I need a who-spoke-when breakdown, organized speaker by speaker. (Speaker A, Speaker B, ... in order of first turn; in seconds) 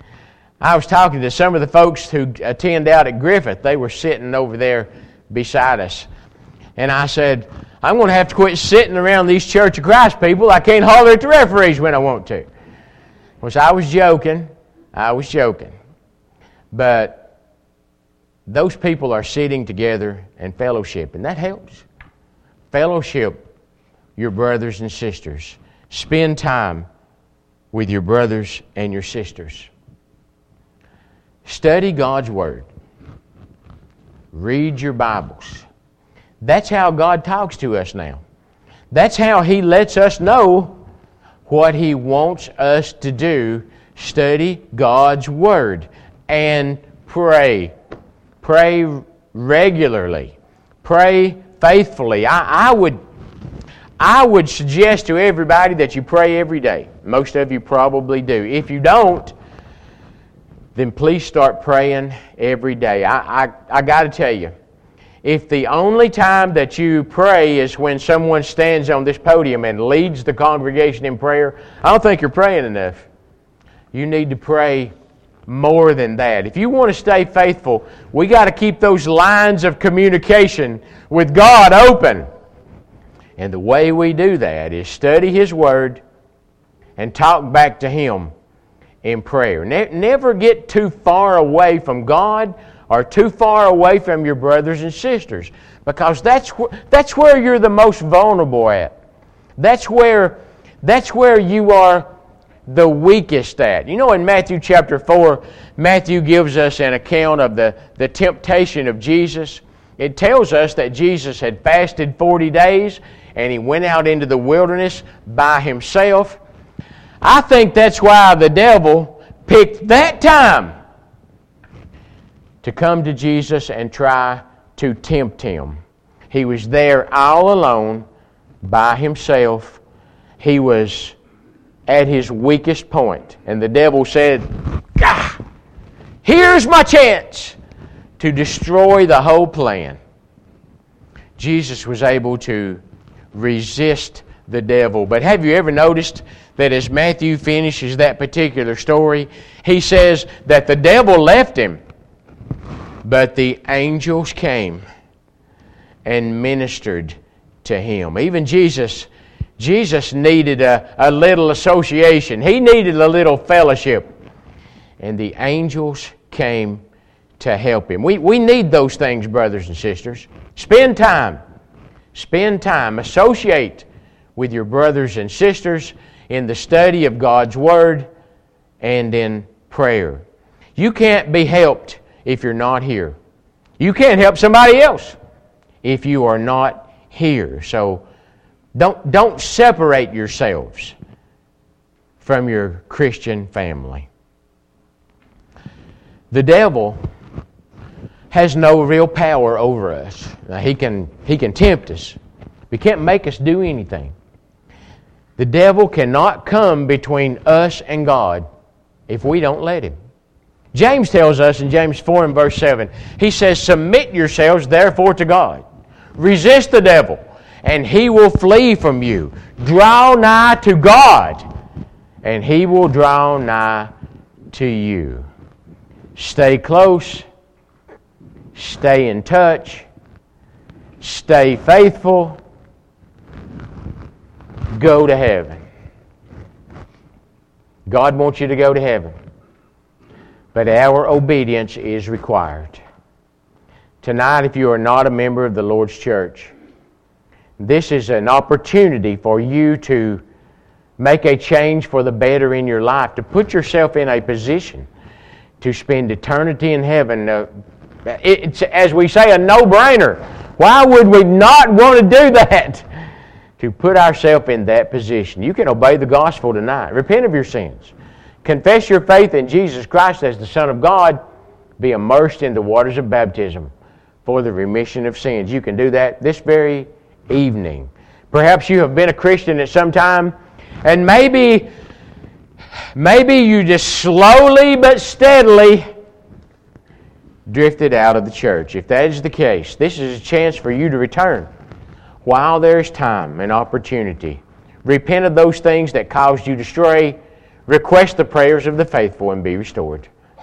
Speaker A: 0.6-6.1, 6.8-12.5, 13.4-15.7, 16.7-17.3, 18.5-21.9, 22.7-23.4, 24.2-26.9, 27.7-29.7, 31.4-32.7, 34.3-35.6, 36.4-38.2, 38.9-40.7, 41.5-47.7, 48.4-53.0, 54.0-59.3, 60.8-64.5, 65.2-73.1, 73.9-74.9, 75.5-82.3, 83.4-86.0, 87.0-88.3, 89.0-98.9, 99.6-102.1, 102.7-116.4, 117.2-120.7, 122.6-125.8, 126.3-128.1, 128.6-129.8, 130.4-131.2, 131.9-135.4, 136.2-137.6, 138.2-140.0, 141.4-142.8, 143.3-151.8, 153.0-154.8, 156.1-164.1, 165.0-166.8, 167.4-171.4, 172.1-178.1, 178.8-180.2, 180.8-183.2, 183.8-185.2, 185.8-188.0, 188.8-190.9, 192.2-194.1, 196.3-197.0, 198.3-202.2, 202.7-204.1, 205.4-208.4, 209.1-209.9, 210.7-215.6, 216.2-221.4, 222.2-223.9, 224.5-225.3, 226.2-227.3, 228.6-229.9, 231.0-232.4, 234.7-235.6, 237.9-239.1, 240.5-242.8, 244.0-246.5, 247.6-250.2, 251.0-254.9, 255.6-257.5, 258.1-262.9, 263.6-271.2, 271.8-273.7, 274.3-281.7, 282.9-285.9, 287.5-291.5, 292.2-300.1